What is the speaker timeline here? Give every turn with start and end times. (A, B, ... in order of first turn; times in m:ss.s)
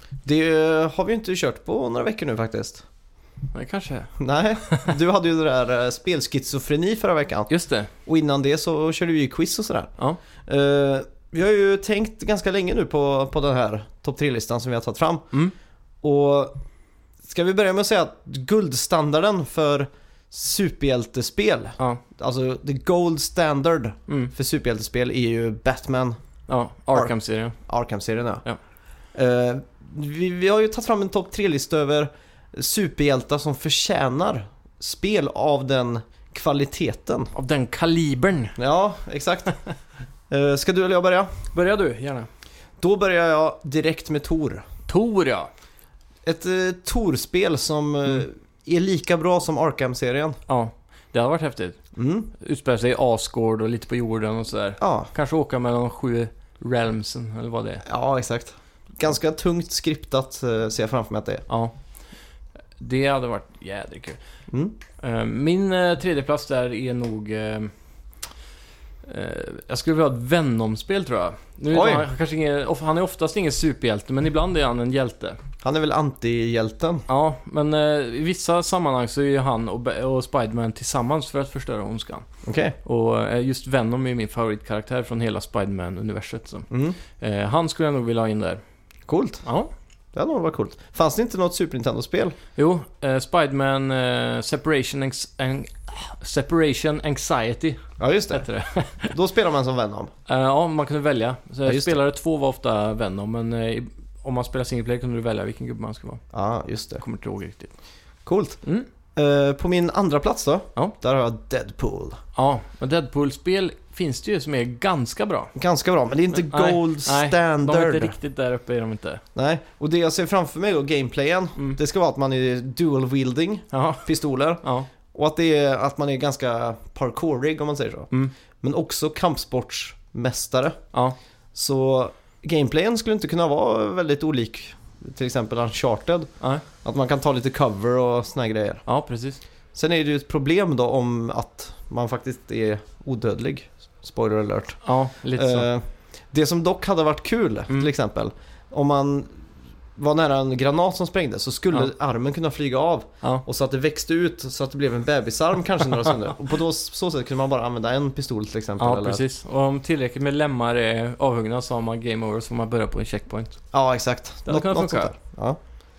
0:00.2-0:02.8 A
0:03.5-0:04.2 B
0:04.2-0:07.5 A
0:04.7-0:04.9 B
0:07.5-0:07.9 B
0:08.0-0:15.3 A
0:16.0-0:16.5 A
0:17.2-0:26.2 A
0:26.5-0:27.6 B
0:26.9-0:28.4 A
0:29.1-0:37.3 A
0:37.3-0:38.6 B
0:38.6-0:39.6 A
0:40.3-0:41.4 A
0:41.5-0:42.3 B
0:42.8-0:44.6 A
0:44.9-0:45.5 B
0:46.2-0:50.4 A
0:50.5-0:51.8 B
0:51.9-0:52.3 A
0:52.3-0:57.8 B
0:54.8-0:55.1 A
0:57.8-1:01.4 A
1:01.5-1:01.7 B
1:02.8-1:04.2 B
1:04.5-1:04.8 A
1:05.0-1:07.7 B
1:09.0-1:15.4 B
1:11.7-1:12.1 A
1:15.6-1:17.0 A
1:17.1-1:22.2 B
1:22.4-1:22.8 A
1:22.8-1:28.6 B
1:26.7-1:27.0 A
1:29.1-1:29.4 A
1:29.4-1:29.7 B
1:30.1-1:32.4 A
1:32.6-1:39.2 B
1:38.0-1:38.5 A
1:39.0-1:40.1 A
1:40.3-1:46.2 B
1:41.6-1:42.0 A
1:46.3-1:47.0 A
1:47.0-1:47.7 B
1:48.2-1:48.6 A
1:49.1-1:52.2 A
1:52.3-1:55.5 B
1:55.5-1:58.1 A
1:56.3-1:59.2 B
1:59.3-2:08.1 A
2:03.7-2:04.1 B
2:04.6-2:04.9 B
2:08.6-2:10.8 A
2:11.5-2:18.8 A
2:18.8-2:19.4 B
2:19.7-2:29.4 A
2:24.8-2:25.7 B
2:30.0-2:39.2 A
2:38.8-2:43.6 B
2:43.7-2:45.6 A
2:44.4-2:45.1 B